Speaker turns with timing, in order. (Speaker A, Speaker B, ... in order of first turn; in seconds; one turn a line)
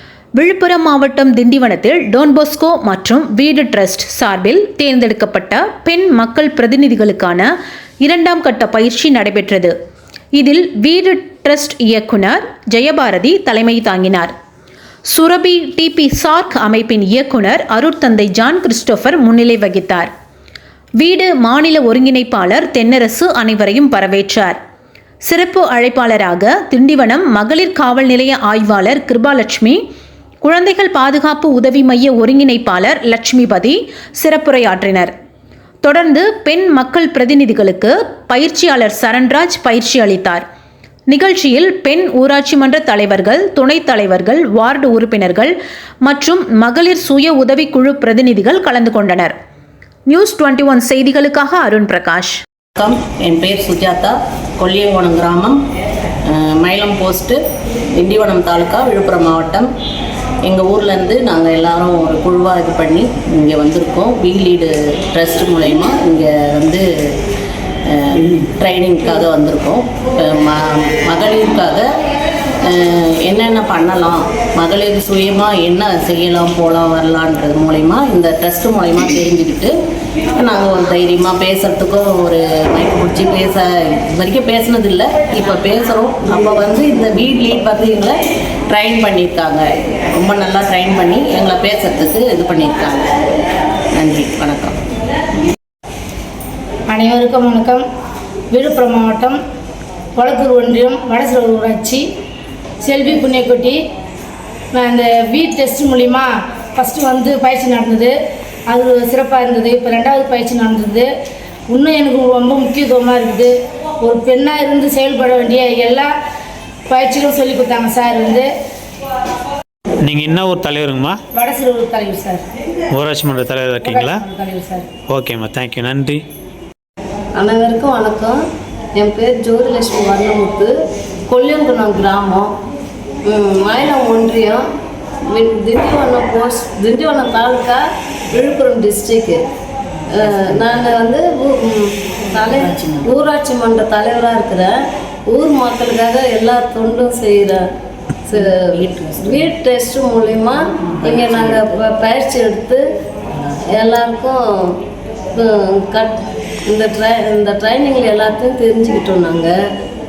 Speaker A: 0.3-7.5
Speaker A: 8.0-9.7
Speaker A: 10.3-14.3
Speaker A: 15.1-20.1
Speaker A: 21.0-24.6
Speaker A: 25.2-29.8
Speaker A: 30.4-35.1
Speaker A: 35.8-40.4
Speaker A: 41.1-49.3
Speaker A: 50.1-52.4
Speaker B: 52.7-55.6
Speaker B: 56.2-57.4
Speaker B: 57.9-59.7
Speaker B: 60.4-67.2
Speaker B: 67.8-71.9
Speaker B: 72.6-79.7
Speaker B: 80.3-88.2
Speaker B: 88.7-93.2
Speaker B: 93.9-94.8
Speaker C: 96.9-97.8
Speaker C: 98.5-99.4
Speaker C: 100.2-102.0
Speaker C: 102.8-103.8
Speaker C: 104.7-108.1
Speaker C: 108.7-111.1
Speaker C: 111.7-116.1
Speaker C: 116.9-118.5
Speaker D: 120.0-121.2
Speaker C: 121.3-122.4
Speaker D: 122.9-124.2
Speaker C: 123.8-124.9
Speaker D: 125.1-126.2
Speaker E: 127.3-128.4
Speaker E: 128.9-130.7
Speaker E: 131.3-132.5
Speaker E: 133.2-134.6
Speaker E: 135.3-139.4
Speaker E: 140.1-144.7
Speaker E: 145.3-147.6
Speaker E: 148.2-152.8
Speaker E: 153.7-154.8
Speaker E: 155.3-159.5